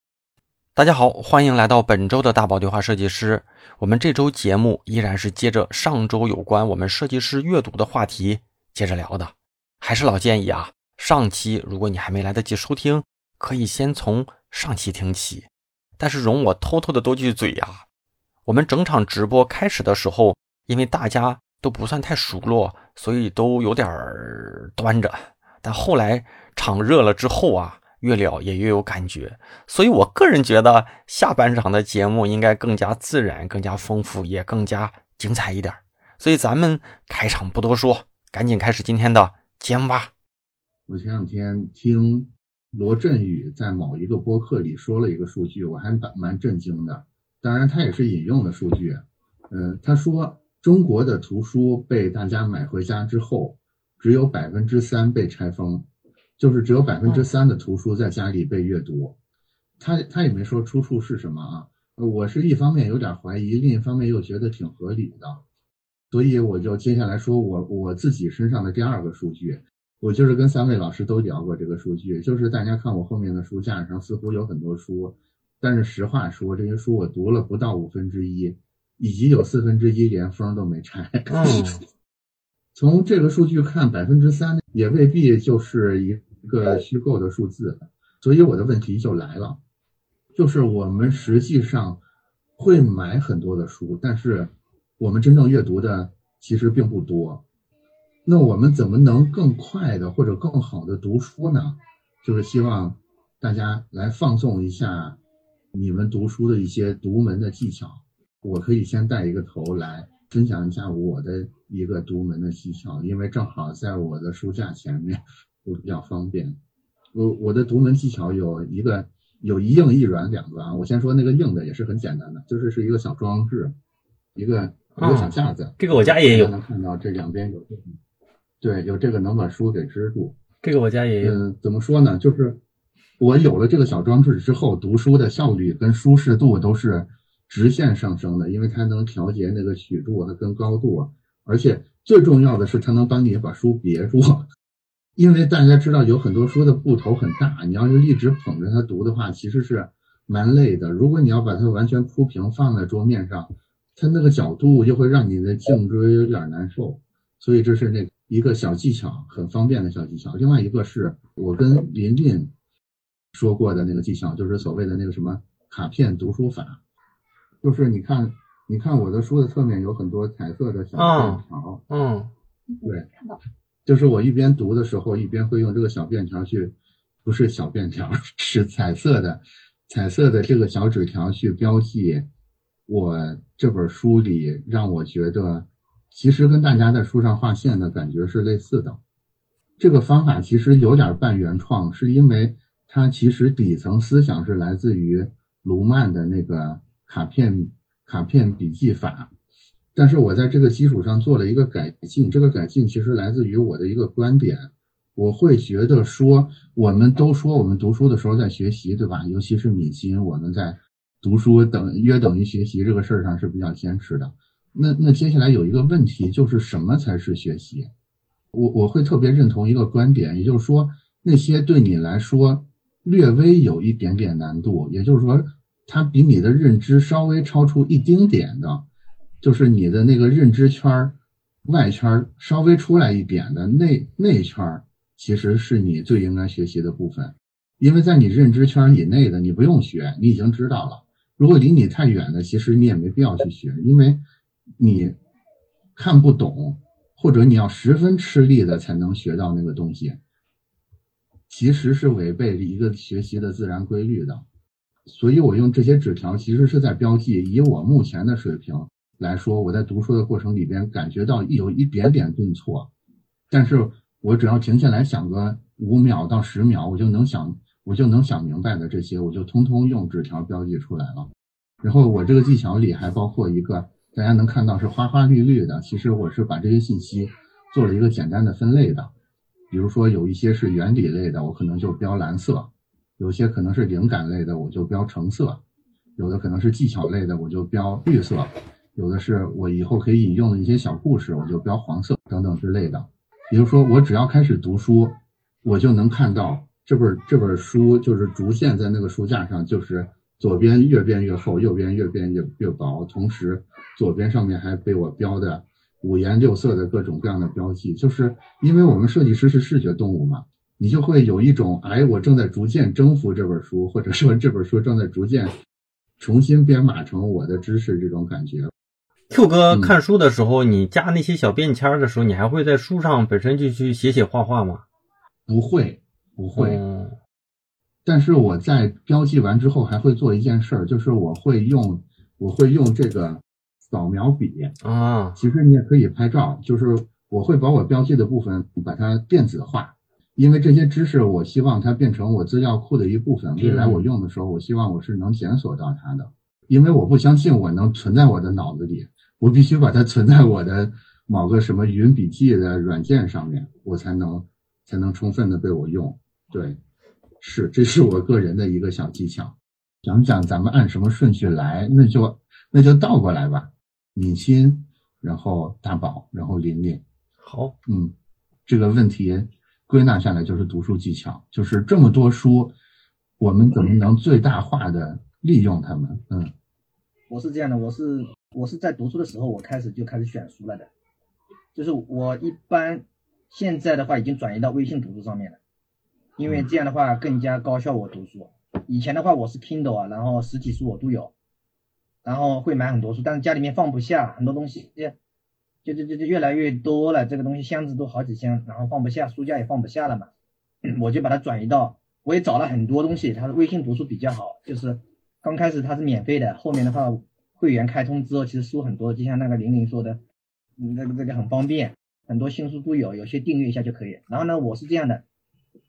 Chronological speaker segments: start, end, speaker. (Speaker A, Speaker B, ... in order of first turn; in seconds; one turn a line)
Speaker A: 0.8-17.8
Speaker A: 18.4-40.1
Speaker B: 40.9-55.9
Speaker B: 56.4-59.2
Speaker B: 59.8-65.4
Speaker B: 66.1-81.8
Speaker A: 81.3-81.8
Speaker B: 82.8-89.6
Speaker B: 90.3-92.0
Speaker B: 92.6-97.4
Speaker B: 98.2-105.2
Speaker B: 105.7-116.6
Speaker B: 117.1-123.8
Speaker B: 124.3-127.8
Speaker A: 125.0-126.5
Speaker B: 128.6-130.4
Speaker A: 130.6-131.4
Speaker B: 131.2-132.6
Speaker B: 133.2-144.5
Speaker B: 145.2-162.5
Speaker B: 163.3-166.8
Speaker B: 167.6-171.8
Speaker A: 171.0-172.3
Speaker B: 172.8-173.1
Speaker B: 173.8-182.3
Speaker B: 182.9-189.0
Speaker B: 189.8-199.3
Speaker B: 199.9-217.9
Speaker B: 218.5-228.9
Speaker B: 229.4-244.2
Speaker B: 244.8-245.2
Speaker B: 245.9-250.2
Speaker B: 251.5-254.4
Speaker B: 255.1-262.9
Speaker B: 263.5-279.1
Speaker B: 279.7-285.6
Speaker B: 286.2-315.6
Speaker B: 316.2-318.7
Speaker A: 319.3-324.8
Speaker B: 319.7-319.9
Speaker B: 325.5-326.8
Speaker A: 326.6-327.2
Speaker B: 328.1-334.8
Speaker A: 334.8-335.4
Speaker B: 335.4-356.8
Speaker A: 343.6-344.1
Speaker B: 357.4-367.0
Speaker A: 367.4-367.8
Speaker B: 367.9-368.1
Speaker B: 368.7-372.8
Speaker B: 373.4-376.5
Speaker C: 377.3-380.9
Speaker C: 381.8-385.6
Speaker C: 386.4-391.3
Speaker C: 392.2-395.2
Speaker C: 395.9-400.3
Speaker C: 400.9-410.2
Speaker C: 410.8-415.2